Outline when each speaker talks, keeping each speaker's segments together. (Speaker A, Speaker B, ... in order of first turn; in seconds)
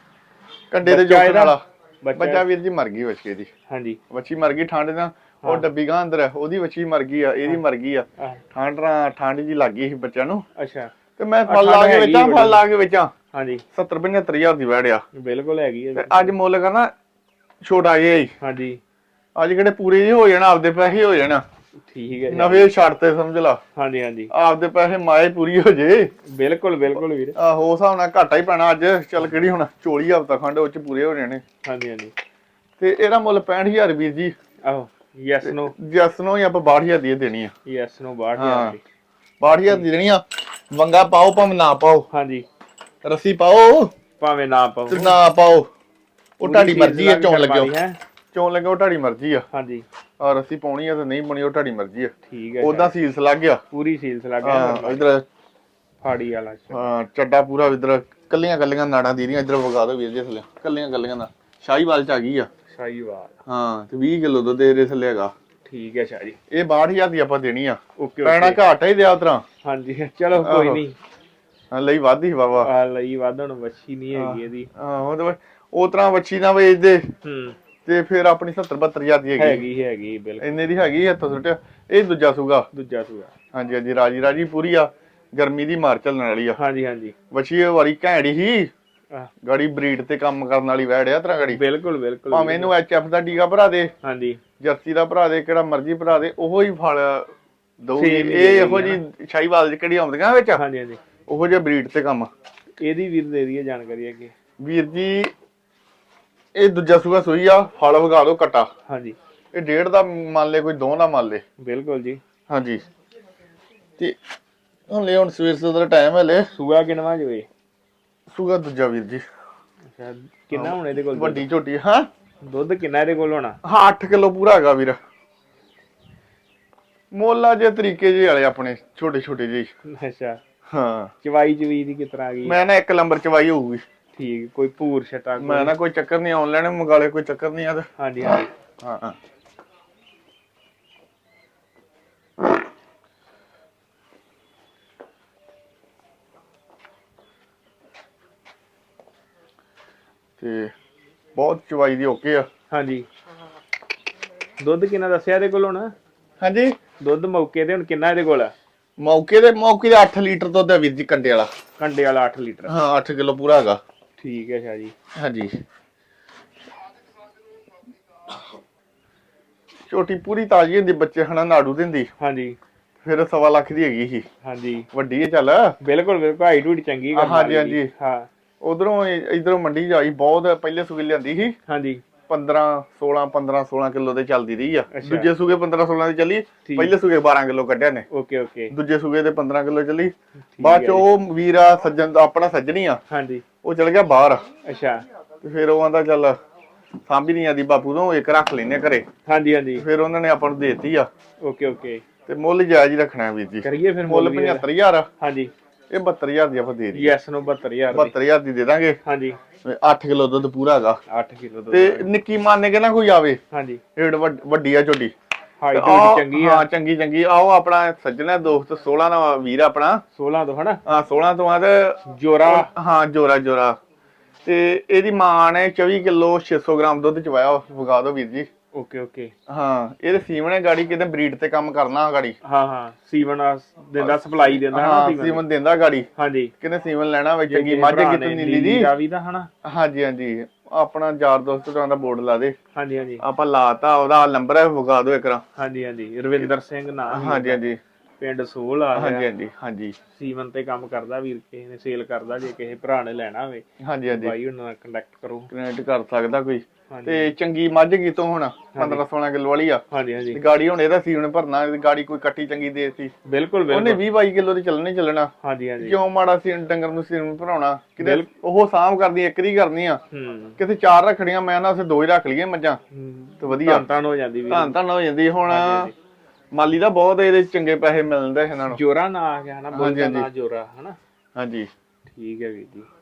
Speaker A: 0.7-1.6, 2.1-3.5, 4.1-10.4, 11.2-13.1, 13.7-15.0, 16.0-16.9, 17.6-18.3, 19.4-21.4, 22.3-23.6, 24.3-26.1, 27.4-31.4, 32.8-34.3, 35.4-37.5, 38.4-38.8, 39.4-42.1, 43.0-43.9, 44.9-45.7, 46.4-47.7, 48.3-49.5, 50.2-53.6, 54.4-55.2, 56.7-62.5, 63.5-65.3, 66.5-69.4, 70.4-70.8, 71.7-72.7, 74.1-77.1, 77.9-79.6, 80.4-82.7, 83.5-86.6, 87.3-88.7, 89.4-91.6, 92.3-93.9, 94.6-97.3, 97.8-100.6, 101.3-102.3, 104.6-105.3, 106.5-108.7, 109.5-111.4, 112.5-112.8, 114.9-116.5, 118.3-119.2, 120.5-122.1, 123.6-125.0, 127.1-129.7, 130.7-131.1, 132.4-133.8, 135.4-139.2, 150.4-150.7, 151.4-152.5, 156.4-156.8, 159.0-161.5, 162.7-163.8, 165.2-165.6, 169.9-172.1, 173.0-174.3, 174.9-175.8, 177.1-177.9, 178.6-181.5, 182.3-188.1, 188.7-193.0, 193.6-194.4, 195.4-196.4, 197.1-199.1, 199.8-201.1, 202.3-205.1, 205.9-207.2, 207.9-209.0, 209.6-211.0, 211.7-213.4, 214.0-215.1, 215.7-220.0, 220.9-223.8, 224.4-228.5, 229.5-232.4, 234.0-236.1, 236.6-238.9, 239.7-242.6, 243.2-245.4, 247.1-247.8, 248.9-250.0, 253.8-254.3, 255.5-259.8, 260.3-263.1, 263.7-270.0, 270.6-272.8, 273.4-273.9, 274.5-275.9, 276.5-278.8, 279.7-280.3, 281.4-281.7
Speaker B: 0.8-2.5, 3.7-4.0, 5.4-5.7, 10.6-10.9, 11.5-12.6, 13.3-13.7, 15.2-16.4, 18.4-18.8, 21.9-22.7, 23.8-24.3, 26.3-27.4, 31.6-32.1, 34.7-35.7, 37.7-38.8, 42.1-42.5, 44.2-45.2, 46.4-48.0, 49.5-49.9, 52.3-52.9, 53.7-55.0, 56.0-56.9, 62.7-63.3, 65.7-66.4, 68.0-68.6, 69.6-71.0, 72.6-74.7, 77.2-77.6, 79.4-80.6, 82.7-83.3, 86.6-87.2, 91.5-92.7, 94.0-94.4, 98.0-99.0, 100.5-101.0, 102.8-104.3, 108.9-109.2, 111.6-112.2, 116.5-117.5, 119.9-121.5, 122.4-123.6, 129.9-130.4, 131.2-132.6, 134.2-135.8, 138.0-138.5, 152.7-153.1, 154.6-155.9, 157.0-158.5, 161.8-162.8, 164.2-164.9, 172.2-172.6, 174.4-174.9, 175.8-178.3, 181.7-182.0, 184.9-185.3, 186.7-186.9, 188.1-188.8, 190.5-191.1, 193.1-193.4, 194.7-195.0, 199.3-199.8, 201.4-202.0, 203.6-204.7, 205.2-205.5, 206.9-208.1, 209.1-209.4, 211.1-212.1, 213.5-213.8, 215.6-216.7, 220.1-220.8, 222.1-222.7, 228.7-229.3, 232.4-235.4, 236.2-236.5, 237.5-239.5, 242.8-243.2, 245.6-247.6, 248.2-249.3, 250.1-255.5, 256.9-257.3, 258.7-259.0, 259.9-260.4, 263.3-264.0, 265.4-266.0, 268.0-268.3, 270.1-270.6, 272.9-274.8, 275.5-275.9, 278.7-281.0, 282.1-282.9